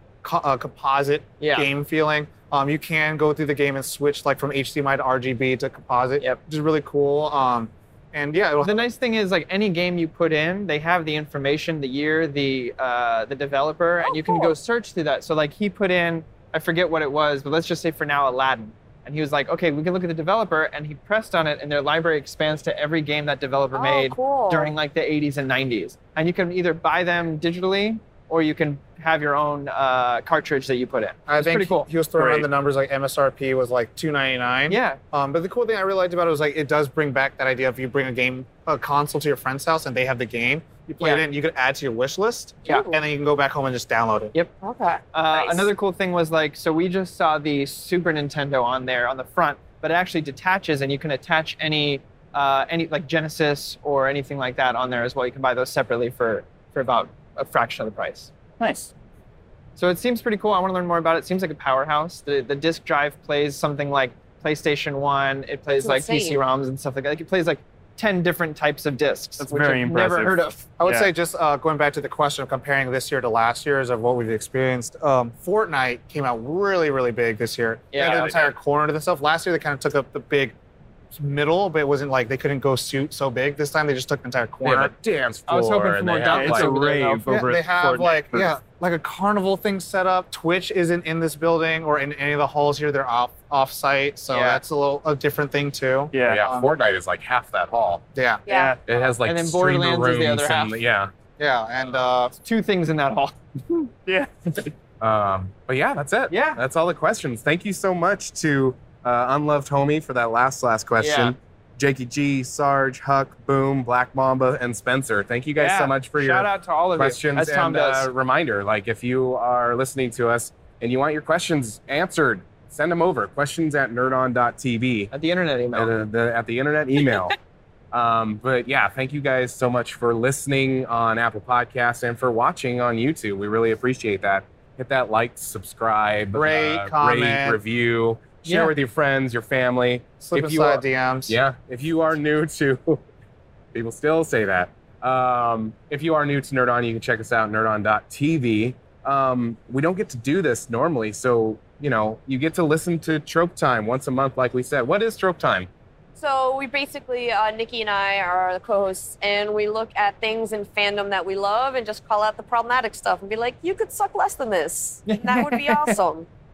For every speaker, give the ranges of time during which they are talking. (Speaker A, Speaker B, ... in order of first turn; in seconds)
Speaker A: 0.2-8.8, 31.3-44.3, 70.8-80.5, 81.1-84.9, 87.3-96.7, 98.1-98.4, 101.4-102.3, 136.3-137.6, 140.2-141.4
Speaker B: 1.4-1.7, 8.6-31.9, 34.7-35.0, 41.0-41.2, 45.1-58.3, 59.8-70.7, 77.9-78.3, 85.5-87.3, 94.3-94.6, 98.5-100.8, 102.4-103.8, 106.3-106.6, 111.0-111.3, 115.6-118.1, 125.1-125.9, 138.4-138.7, 165.1-166.0
Speaker C: 14.0-14.5, 23.7-24.7, 42.7-43.0, 44.6-45.7, 65.8-66.4, 98.5-98.8, 156.2-166.3
Speaker D: 32.2-32.5, 58.6-58.9, 69.4-71.0, 86.3-88.4, 96.1-96.4, 104.0-104.7
Speaker E: 84.6-86.7, 96.3-98.0, 98.9-101.1, 105.0-125.1, 125.7-127.3, 127.9-143.0, 143.7-155.7